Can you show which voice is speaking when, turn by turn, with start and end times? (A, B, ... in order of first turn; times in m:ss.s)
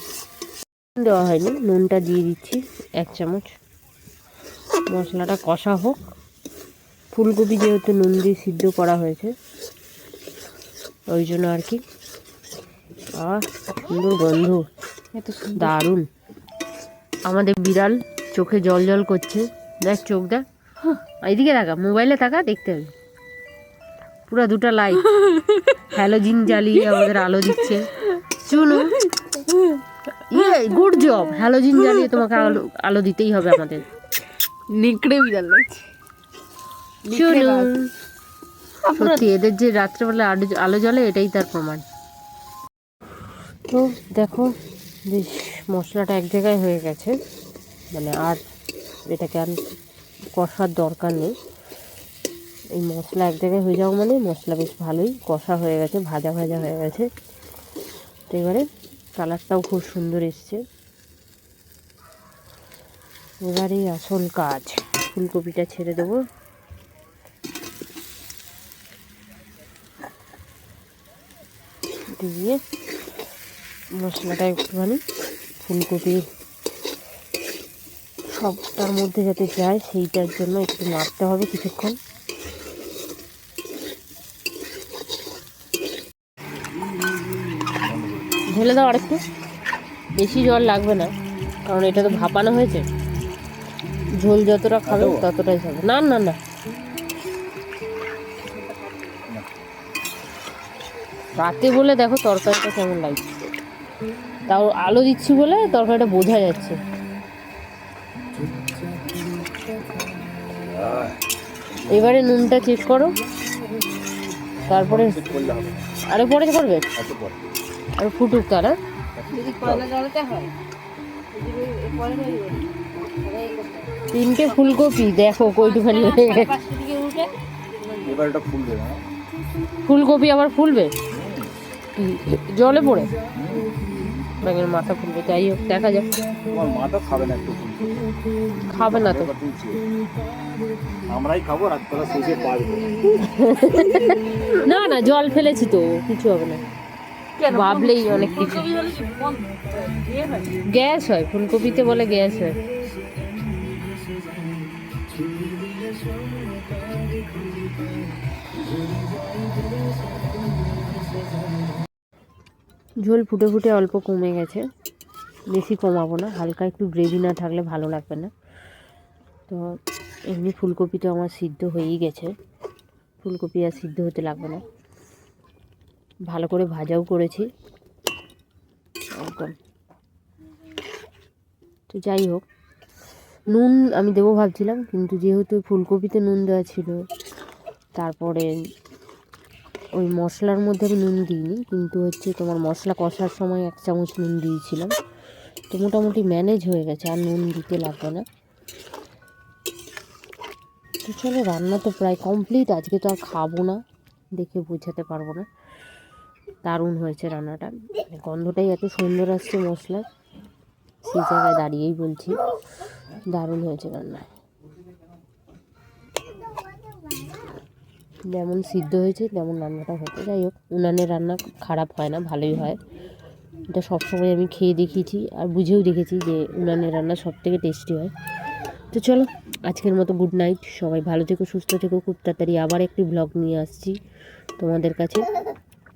0:01.0-0:03.5 A
0:04.9-0:06.0 A
0:07.1-0:09.3 A
0:11.1-0:11.8 A
0:13.2-0:14.6 A
0:15.1-0:15.7 B
0:15.6-0:16.0 A
0:17.2-0:20.4 A
0:21.2-0:22.9 A
0:24.3-0:25.1 A
0:25.8-0:29.0 A
0:30.3-0:33.8 A
0:34.7-0:35.8 B
0:37.0-0:37.7 B
0:37.1-0:37.9 A
0:38.8-0:39.2 B
0:38.9-0:41.8 A
0:43.7-0:44.5 A
0:45.1-0:47.1 A
0:47.9-0:48.4 A
0:49.1-0:49.6 A
0:50.4-0:51.3 A
0:52.7-0:57.1 A
0:58.3-0:58.6 A
0:59.2-1:00.6 A
1:03.4-1:06.2 A
1:12.2-1:12.6 A
1:14.0-1:15.0 A
1:15.6-1:16.2 A
1:18.3-1:22.0 A
1:27.8-1:28.3 C
1:28.5-1:29.2 A
1:30.2-1:31.1 A
1:31.6-1:32.8 A
1:34.2-1:36.4 A
1:34.9-1:35.3 C
1:38.4-1:39.2 B
1:39.3-1:39.6 C
1:41.4-1:43.3 A
1:44.5-1:46.8 A
1:50.8-1:51.1 C
1:51.8-1:53.1 A
1:54.7-1:55.2 A
1:54.7-1:55.9 C
1:56.1-1:56.8 A
1:57.0-1:57.4 C
1:58.0-1:58.7 A
1:59.2-1:59.9 C
1:59.3-2:00.5 B
2:01.3-2:03.9 B
2:04.1-2:06.5 A
2:04.4-2:04.7 B
2:05.4-2:08.2 B
2:08.0-2:09.0 C
2:09.8-2:10.9 A
2:11.1-2:11.5 C
2:12.0-2:13.1 A
2:13.4-2:13.7 C
2:14.4-2:16.1 A
2:16.5-2:18.0 C
2:18.6-2:19.3 A
2:18.8-2:19.8 C
2:21.1-2:23.0 C
2:23.2-2:26.6 A
2:27.4-2:30.5 B
2:27.5-2:28.7 A
2:30.7-2:32.6 A
2:43.0-2:44.6 A
2:45.5-2:48.3 A
2:50.3-2:52.3 A
2:53.2-2:54.6 A
2:56.3-2:57.5 A
2:59.1-2:59.5 A
3:01.9-3:02.4 A
3:03.5-3:07.0 A
3:08.0-3:08.5 A
3:10.0-3:14.9 A
3:15.7-3:18.2 A
3:21.0-3:23.8 A
3:24.4-3:25.4 A
3:26.6-3:30.0 A
3:31.0-3:32.4 A
3:33.3-3:34.3 A
3:38.3-3:42.8 A
3:43.7-3:48.1 A
3:48.9-3:54.0 A
3:54.6-3:55.3 A